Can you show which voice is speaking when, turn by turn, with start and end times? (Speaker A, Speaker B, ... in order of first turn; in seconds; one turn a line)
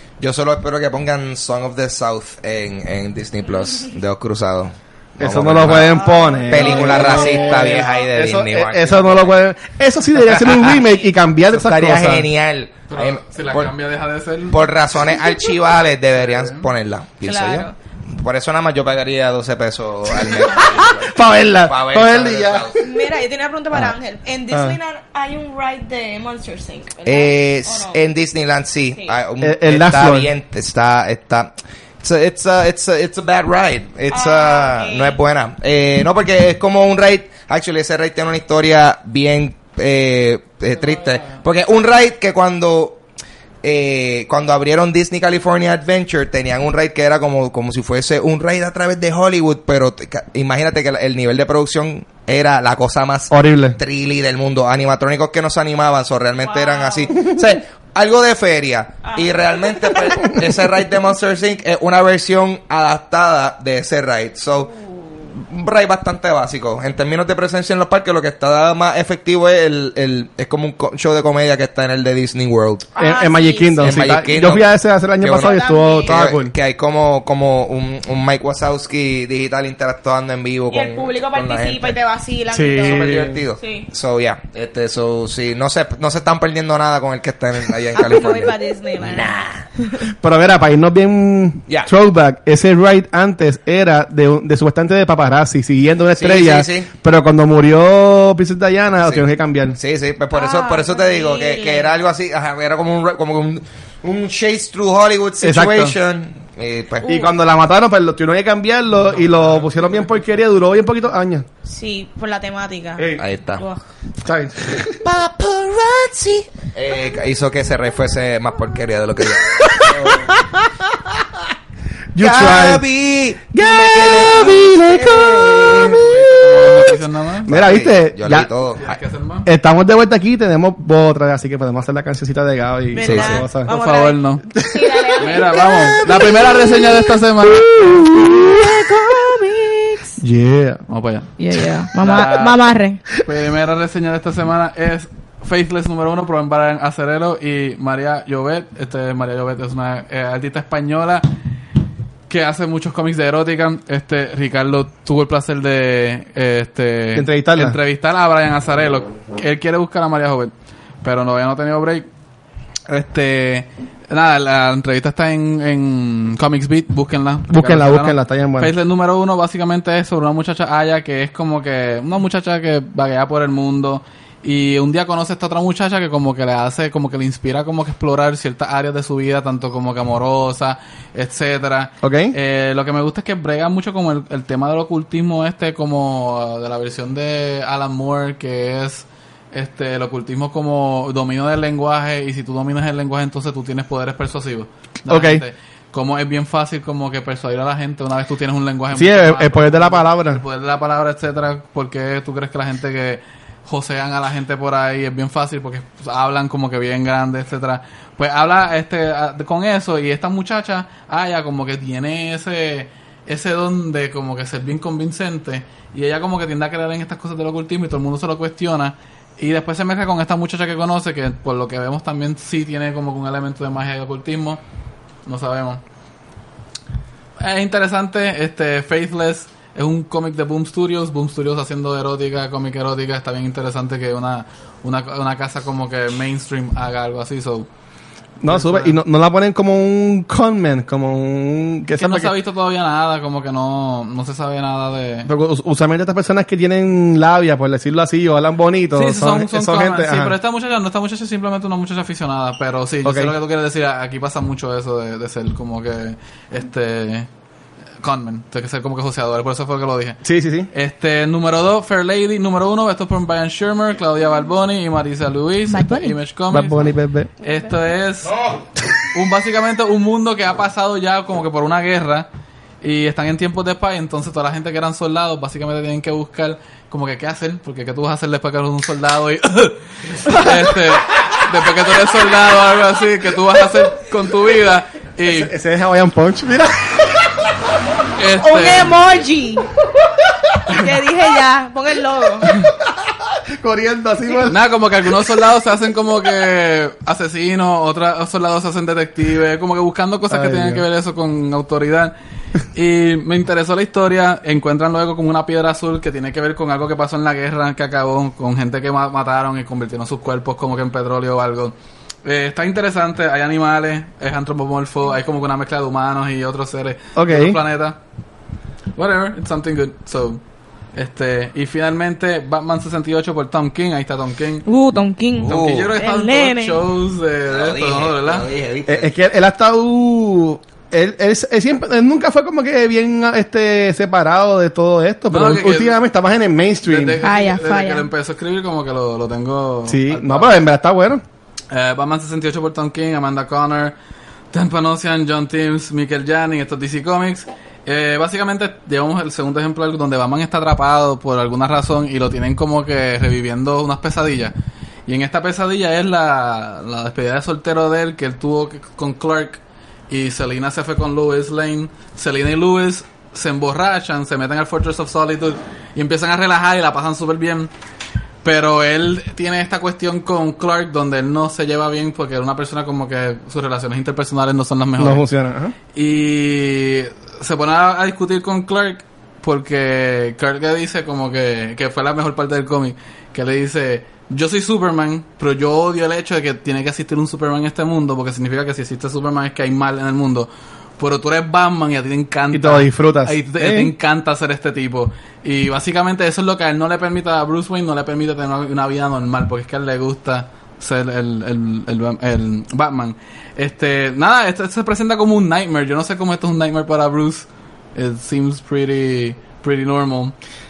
Speaker A: 0.2-9.4
Speaker B: 5.2-12.3
Speaker C: 5.9-8.0
Speaker A: 10.4-10.8
Speaker A: 11.5-13.7
Speaker D: 12.9-14.7
Speaker A: 14.5-22.8
Speaker D: 16.2-16.6
Speaker C: 17.2-17.7
Speaker B: 20.3-22.7
Speaker C: 22.8-28.0
Speaker B: 24.5-24.8
Speaker A: 27.0-43.0
Speaker B: 29.4-30.3
Speaker C: 34.1-35.2
Speaker A: 43.6-64.7
Speaker B: 53.3-53.8
Speaker C: 56.4-57.2
Speaker C: 59.0-60.2
Speaker C: 64.8-65.1
Speaker A: 65.3-72.9
Speaker C: 72.9-74.2
Speaker B: 73.0-76.5
Speaker A: 73.8-74.7
Speaker A: 75.2-82.0
Speaker C: 75.3-76.1
Speaker C: 80.7-83.9
Speaker B: 82.5-83.4
Speaker A: 82.7-89.6
Speaker C: 87.9-90.1
Speaker B: 90.2-99.8
Speaker A: 96.2-96.9
Speaker A: 99.0-107.2
Speaker C: 100.3-102.0
Speaker B: 105.4-105.9
Speaker C: 107.0-107.3
Speaker B: 107.0-111.5
Speaker D: 109.2-109.6
Speaker C: 111.6-113.8
Speaker B: 113.0-113.2
Speaker A: 113.2-113.6
Speaker B: 114.2-115.0
Speaker A: 115.0-120.3
Speaker B: 119.6-121.1
Speaker B: 122.1-122.8
Speaker A: 122.2-126.0
Speaker B: 123.5-126.7
Speaker D: 125.9-127.5
Speaker B: 127.5-128.5
Speaker A: 127.5-129.0
Speaker D: 128.8-129.5
Speaker B: 129.4-133.7
Speaker C: 132.9-136.5
Speaker A: 133.0-133.4
Speaker D: 133.7-134.4
Speaker B: 134.5-136.5
Speaker D: 135.2-138.0
Speaker B: 137.4-139.0
Speaker C: 138.2-140.2
Speaker B: 140.2-140.8
Speaker D: 140.9-141.3
Speaker C: 141.4-143.0
Speaker D: 142.0-142.6
Speaker D: 143.2-151.2
Speaker D: 152.3-162.1
Speaker B: 157.2-157.8
Speaker D: 162.9-224.6
Speaker B: 167.5-168.7
Speaker B: 182.0-182.3
Speaker B: 195.1-195.4
Speaker B: 198.9-200.4
Speaker D: 225.2-225.8
Speaker D: 227.4-237.7
Speaker B: 238.4-242.3
Speaker D: 238.4-239.0
Speaker D: 242.0-245.3
Speaker B: 245.3-250.3
Speaker D: 248.9-257.3
Speaker B: 253.0-253.3
Speaker D: 258.0-266.9
Speaker B: 260.2-260.7
Speaker C: 265.7-266.2
Speaker B: 266.5-267.3
Speaker D: 267.4-268.4
Speaker A: 268.2-268.6
Speaker D: 269.1-272.3
Speaker D: 272.8-285.5
Speaker B: 285.2-287.4
Speaker D: 288.1-289.0
Speaker C: 288.4-289.7
Speaker C: 290.7-292.5
Speaker B: 292.4-294.6
Speaker D: 294.5-302.1
Speaker B: 300.3-300.9
Speaker D: 302.7-318.0
Speaker B: 317.1-317.6
Speaker D: 318.9-320.4
Speaker D: 320.9-324.6
Speaker C: 324.6-326.8
Speaker A: 325.4-325.9
Speaker D: 325.4-328.4
Speaker A: 327.5-329.1
Speaker B: 328.9-337.2
Speaker D: 335.3-336.0
Speaker D: 336.8-340.6
Speaker C: 337.2-338.1
Speaker B: 339.9-341.2
Speaker D: 341.7-343.9
Speaker D: 344.5-354.5
Speaker D: 355.1-367.7
Speaker D: 368.4-375.2
Speaker B: 375.0-375.7
Speaker D: 375.9-410.3
Speaker B: 392.5-393.9